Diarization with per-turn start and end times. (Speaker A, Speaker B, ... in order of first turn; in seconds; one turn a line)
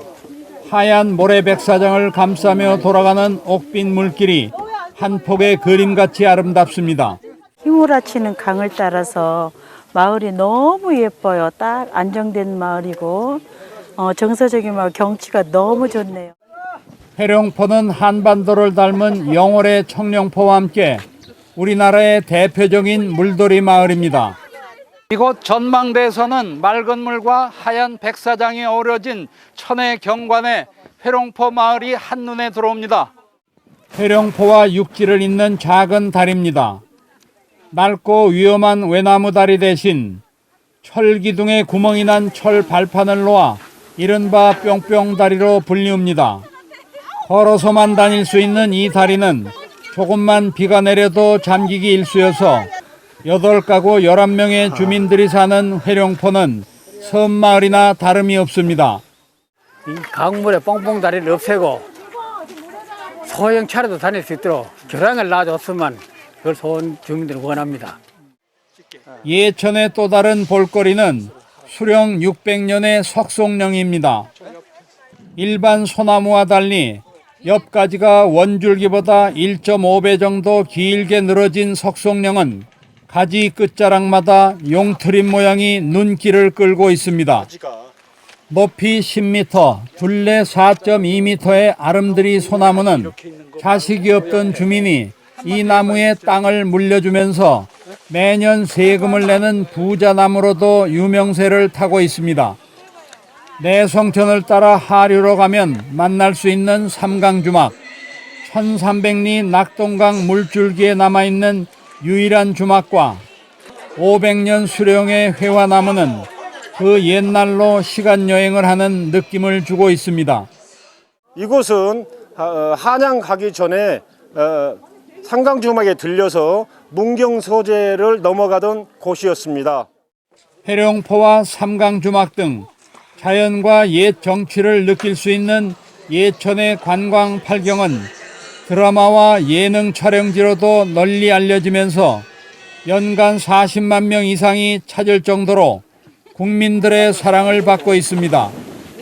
Speaker A: 0.6-7.2
Speaker B: 7.6-13.4
Speaker B: 13.9-16.3
Speaker A: 17.2-24.4
Speaker A: 25.1-33.1
Speaker A: 33.9-36.8
Speaker A: 37.7-40.2
Speaker A: 40.8-46.5
Speaker A: 47.2-52.7
Speaker A: 53.2-59.0
Speaker C: 59.9-61.9
Speaker C: 63.2-68.0
Speaker A: 69.2-74.3
Speaker A: 75.3-87.5
Speaker D: 87.5-87.9
Speaker A: 88.5-102.6
Speaker A: 103.6-107.7
Speaker A: 108.4-113.2
Speaker A: 114.0-120.5
Speaker D: 121.3-129.9
Speaker A: 130.6-138.1
Speaker A: 138.7-142.3
Speaker A: 142.8-145.8
Speaker A: 146.3-148.5